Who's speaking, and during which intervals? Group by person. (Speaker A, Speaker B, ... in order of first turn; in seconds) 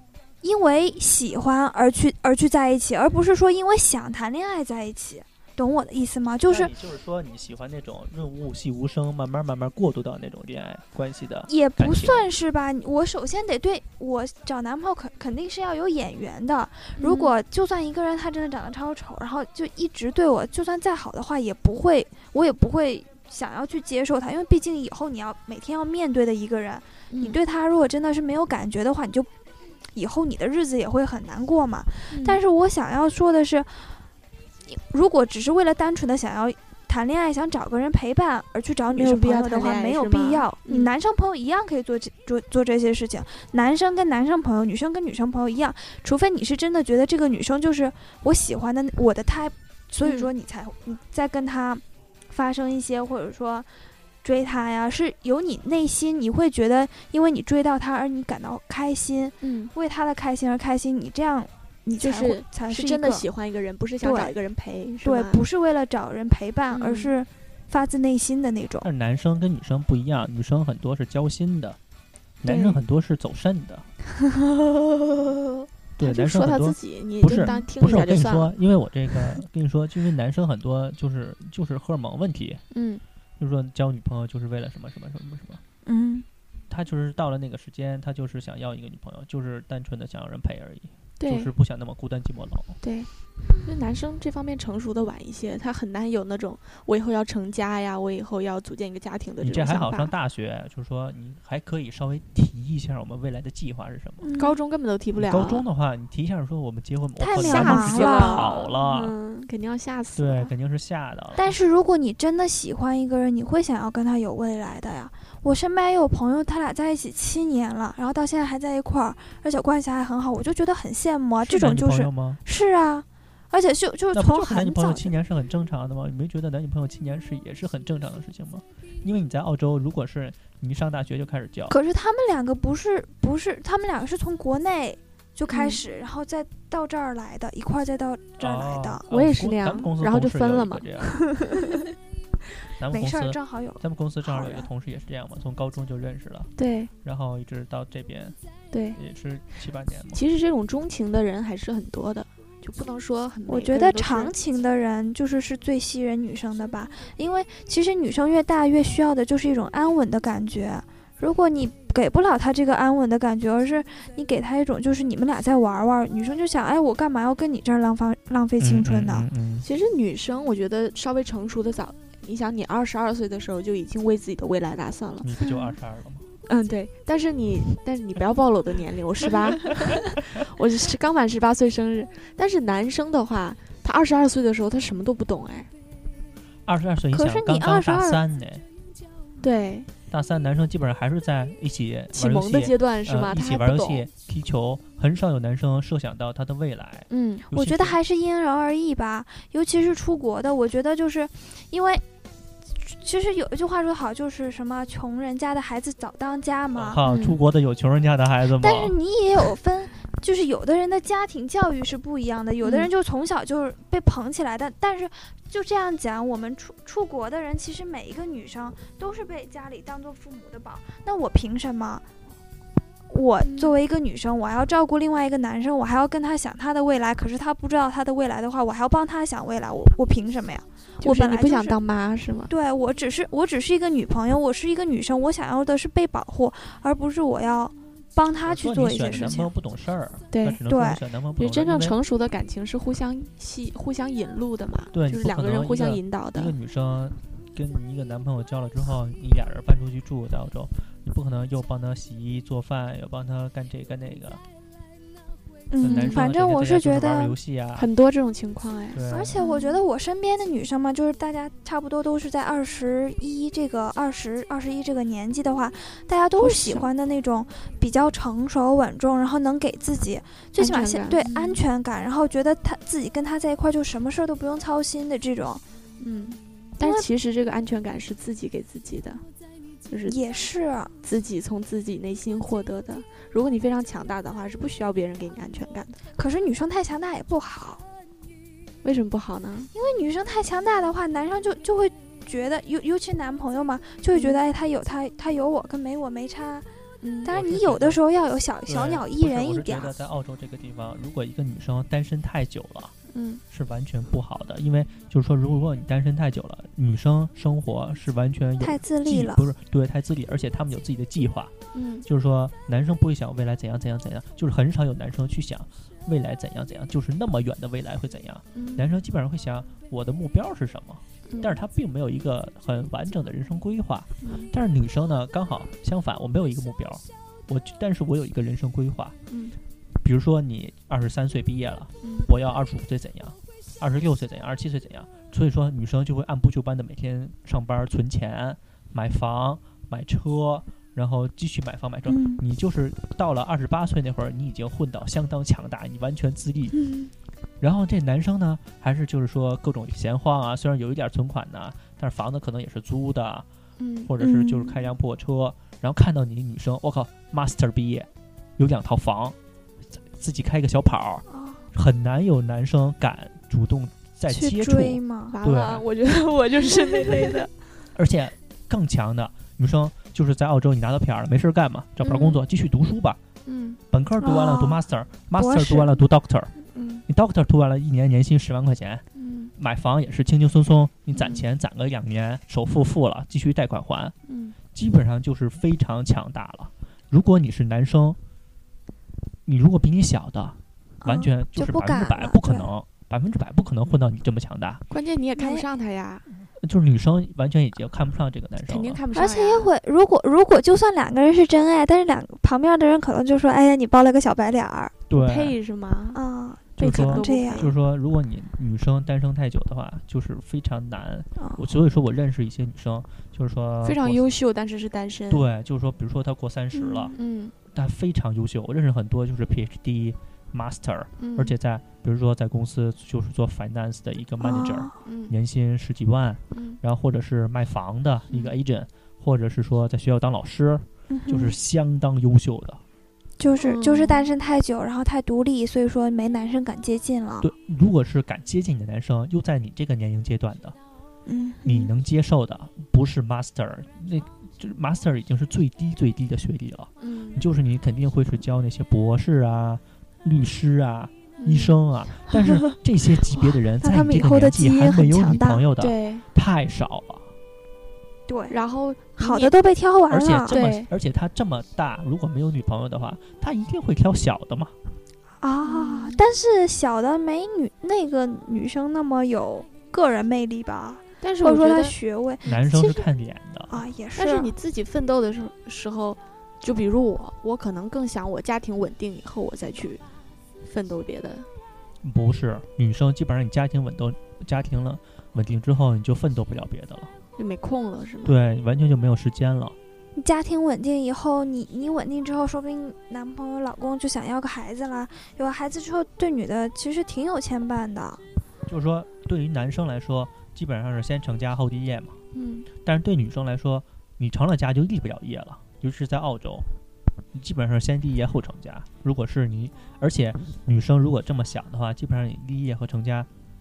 Speaker A: 0.4-6.7, 11.5-29.3, 29.9-34.0, 34.7-53.7, 54.2-63.2, 64.0-64.3, 65.0-68.9, 85.8-86.2, 104.2-104.6, 107.2-108.5, 111.4-125.1, 131.7-139.0, 142.9-144.7, 153.5-169.3, 187.1-188.2, 197.5-202.0, 202.8-207.0, 208.6-222.1, 223.1-231.8, 232.5-239.5, 240.7-241.0, 255.7-257.4, 259.1-275.6, 276.8-277.1, 280.1-280.9, 286.2-287.8, 289.7-296.7, 297.2-299.9, 308.6-309.5, 342.1-342.4, 346.8-347.1, 354.2-354.8, 361.3-361.6, 364.3-365.4, 374.2-374.8, 375.4-376.0, 391.0-392.7, 395.4-395.6, 399.1-404.9, 406.1-407.7, 411.4-411.6, 416.7-417.1, 424.4-424.9, 431.1-431.6, 433.4-437.5, 441.3-441.9, 453.8-455.6, 458.3-458.6, 459.2-460.6, 465.4-472.5, 473.7-474.5, 490.1-498.2
Speaker B: 6.5-12.3, 68.8-71.8, 72.4-73.9, 76.0-82.6, 83.4-85.6, 86.7-92.8, 99.4-104.3, 105.1-109.1, 110.2-111.6, 121.4-122.4, 124.1-131.7, 138.4-141.2, 142.8-146.5, 147.0-148.4, 148.9-150.2, 168.6-169.7, 175.2-176.3, 186.7-188.6, 190.1-198.0, 206.7-208.9, 238.4-241.9, 244.9-254.4, 255.8-257.9, 258.9-259.4, 297.3-298.0, 298.7-302.9, 303.5-311.5, 312.1-329.1, 330.0-346.8, 347.6-353.4, 354.1-359.4, 360.1-365.9, 367.9-373.2, 373.9-376.5, 377.1-379.0, 379.6-384.1, 384.7-388.2, 389.4-394.8, 396.6-399.0, 405.1-405.6, 406.8-414.3, 415.3-417.1, 417.7-432.8, 437.4-440.8, 441.6-457.3, 460.1-464.7, 472.4-473.8, 482.0-487.1, 488.2-489.8, 498.7-502.2, 502.8-506.7, 507.3-513.3
Speaker C: 17.0-17.3, 27.1-27.4, 32.1-32.4, 38.9-40.9, 50.0-50.3, 59.4-59.7, 62.0-65.4, 66.7-67.1, 72.4-72.8, 74.6-75.4, 76.0-78.5, 82.7-83.0, 91.2-91.5, 92.8-93.1, 93.6-100.1, 104.4-105.6, 107.4-110.5, 135.5-135.8, 139.1-141.8, 146.6-146.9, 148.7-149.0, 150.1-154.3, 169.6-175.7, 176.5-185.7, 189.4-189.9, 192.1-194.1, 197.1-197.4, 207.1-207.4, 212.6-212.9, 223.4-223.8, 231.0-232.5, 240.3-240.6, 241.4-246.6, 255.9-256.2, 257.8-259.8, 266.4-266.9, 270.6-271.6, 276.0-279.2, 279.9-280.2, 281.0-285.9, 288.8-289.7, 294.1-294.4, 297.0-297.3, 303.1-303.4, 311.7-312.1, 318.5-318.9, 321.3-321.6, 324.2-324.5, 329.3-329.6, 332.0-332.3, 353.8-354.1, 365.3-367.5, 372.0-372.4, 373.4-373.8, 376.7-377.0, 379.1-379.5, 381.1-381.4, 384.3-384.6, 394.9-396.2, 398.6-399.7, 405.1-406.2, 406.8-407.7, 413.8-415.4, 417.1-417.5, 421.2-421.6, 425.0-425.4, 426.5-426.8, 428.3-428.6, 433.6-434.3, 447.0-447.5, 451.4-452.6, 455.8-456.2, 458.5-459.5, 460.5-460.9, 465.6-466.2, 471.2-473.1, 474.1-480.0, 480.6-481.5, 487.4-488.4, 502.3-502.7